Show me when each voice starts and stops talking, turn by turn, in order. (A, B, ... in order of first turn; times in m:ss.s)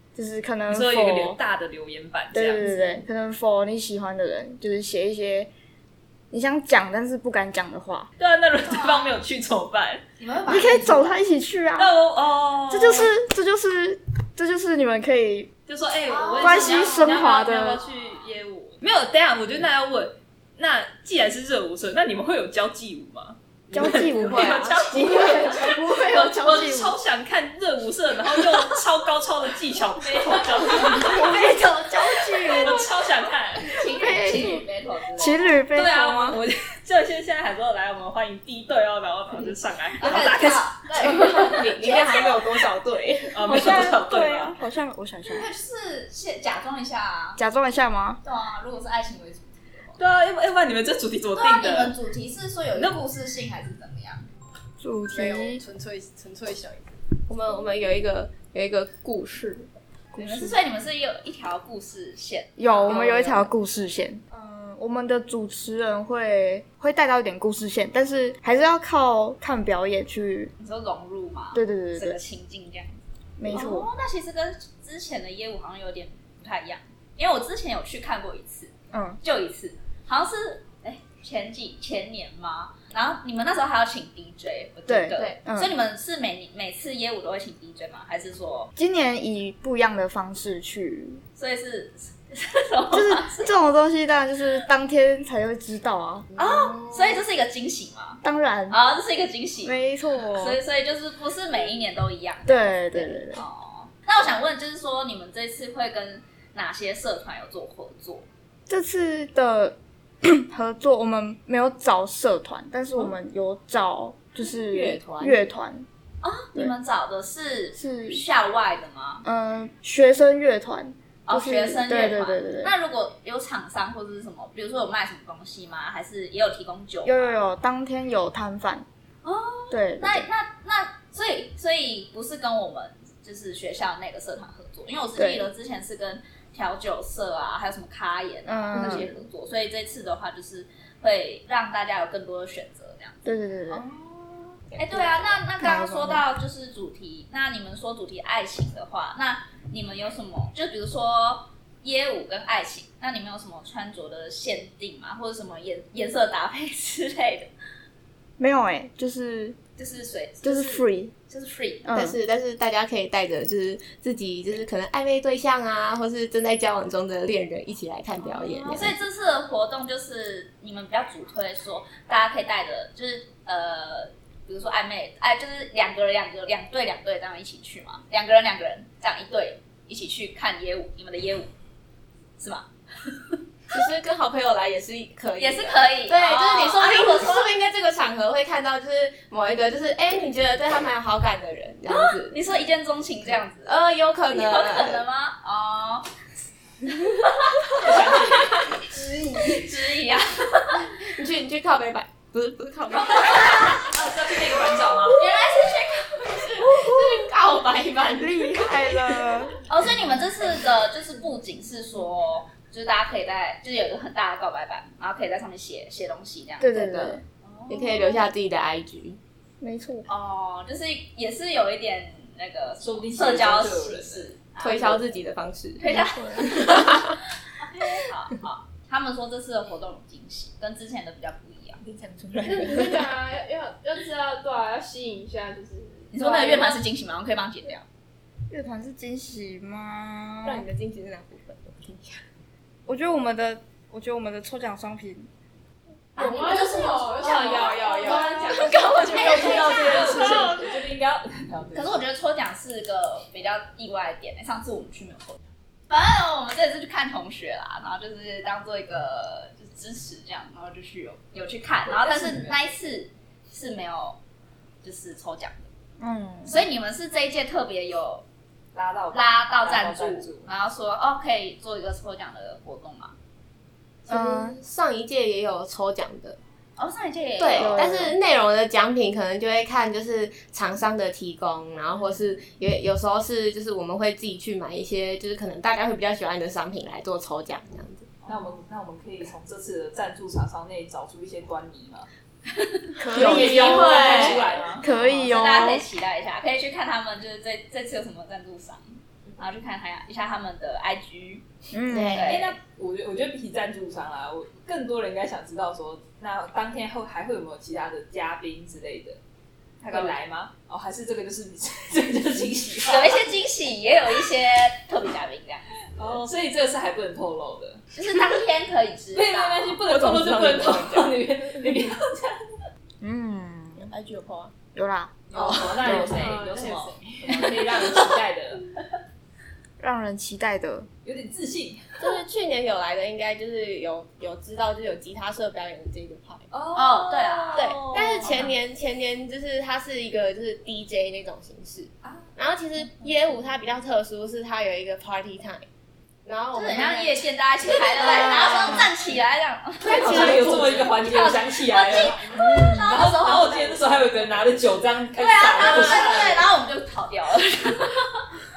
0:00.2-0:01.4 A
0:00.7-0:02.6 B
0:02.3-0:05.5 A
0:02.6-0:03.0 C
0:06.3-0:08.1 A
0:08.2-0:10.0 B
0:08.7-0:09.2 C
0:10.2-0:11.2 C
0:10.5-0:11.9 A
0:11.8-0:13.1 B
0:12.7-0:15.5 A
0:15.7-0:31.4 B
0:16.1-0:17.3 C
0:16.4-0:17.8 A
0:23.7-0:27.0 A
0:30.4-0:32.9 A
0:30.9-0:31.5 C
0:32.4-0:33.7 B
0:33.7-0:35.5 C
0:33.8-0:36.4 A
0:35.7-0:44.6 B
0:40.0-0:42.3 C
0:41.2-0:42.4 D
0:43.4-0:45.5 A
0:45.3-0:47.4 C
0:47.4-0:48.2 A
0:48.2-0:50.0 C
0:50.0-0:51.9 B
0:51.4-0:54.2 C
0:54.8-0:55.6 A
0:55.1-0:57.0 E
0:57.2-0:59.7 D
1:00.1-1:00.6 A
1:00.2-1:03.5 C
1:02.6-1:10.5 A
1:10.6-1:28.7 C
1:11.5-1:12.2 A
1:13.4-1:13.9 A
1:18.9-1:19.2 A
1:24.9-1:25.8 A
1:28.8-1:31.2 A
1:31.4-1:33.5 C
1:32.9-1:36.3 A
1:36.4-1:48.2 C
1:36.4-1:37.0 D
1:38.2-1:38.8 A
1:39.6-1:40.6 A
1:42.4-1:43.4 A
1:48.7-1:55.9 A
1:54.4-1:55.4 D
1:56.2-1:59.2 C
1:57.8-1:58.2 A
1:59.2-2:02.7 A
2:01.2-2:07.4 C
2:07.0-2:08.9 A
2:09.2-2:37.5 C
2:09.7-2:10.2 A
2:15.2-2:15.5 A
2:18.4-2:19.1 A
2:18.8-2:19.1 D
2:23.2-2:23.8 A
2:24.7-2:25.3 D
2:25.6-2:26.2 A
2:38.4-2:39.6 A
2:39.8-2:41.9 C
2:40.4-2:41.1 A
2:41.8-2:42.2 A
2:41.9-2:49.0 D
2:48.2-3:01.5 C
3:02.4-3:03.4 C
3:03.7-3:12.4 D
3:05.4-3:07.5 C
3:11.9-3:16.1 C
3:13.6-3:15.0 D
3:17.0-3:20.9 C
3:17.7-3:18.5 B
3:18.9-3:19.6 F
3:20.8-3:23.6 D
3:22.9-3:23.9 C
3:23.5-3:25.3 B
3:25.1-3:29.1 C
3:28.2-3:29.6 A
3:29.7-3:38.2 C
3:36.6-3:37.2 A
3:37.7-3:39.2 D
3:39.6-3:40.1 A
3:40.1-3:45.0 C
3:42.8-3:44.3 B
3:44.6-3:47.2 D
3:45.8-3:47.0 C
3:45.9-3:46.7 A
3:47.6-3:51.8 C
3:51.8-3:53.0 D
3:52.4-3:56.8 F
3:56.1-3:57.8 C
3:58.5-4:00.7 A
4:00.4-4:02.2 D
4:02.9-4:05.3 A
4:06.2-4:09.8 F
4:06.2-4:10.6 C
4:07.2-4:12.0 B
4:07.6-4:08.3 E
4:08.8-4:10.6 E
4:09.6-4:09.9 D
4:11.7-4:24.2 C
4:21.9-4:22.6 B
4:24.8-4:25.7 C
4:26.0-4:26.6 A
4:26.4-4:28.2 C
4:28.8-4:30.5 B
4:29.1-4:33.2 C
4:34.1-4:36.4 D
4:34.1-4:34.6 A
4:36.8-4:37.9 C
4:37.4-4:48.2 D
4:37.5-4:38.2 A
4:48.2-4:52.1 B
4:52.5-5:01.4 C
4:53.0-4:55.8 A
4:53.1-4:54.4 D
4:53.1-4:54.9 B
5:01.7-5:02.3 A
5:01.9-5:02.4 D
5:02.1-5:02.6 C
5:02.3-5:09.2 B
5:09.8-5:10.2 C
5:09.8-5:13.3 B
5:12.8-5:15.8 C
5:16.0-5:17.8 B
5:17.9-5:19.8 C
5:19.1-5:22.4 B
5:19.9-5:20.5 D
5:23.0-5:23.9 A
5:23.8-5:24.6 D
5:24.8-5:25.2 A
5:25.3-5:28.6 B
5:25.4-5:25.9 E
5:25.8-5:26.2 A
5:25.9-5:27.8 F
5:29.8-5:30.9 A
5:31.0-5:32.2 B
5:32.0-5:36.4 D
5:36.5-5:38.5 B
5:36.7-5:37.7 C
5:37.6-5:45.7 D
5:46.3-5:47.3 D
5:46.5-5:53.8 C
5:48.0-5:48.7 D
5:48.0-5:48.9 A
5:49.8-5:56.4 B
5:49.9-5:50.9 D
5:52.3-5:52.9 A
5:55.2-5:58.3 C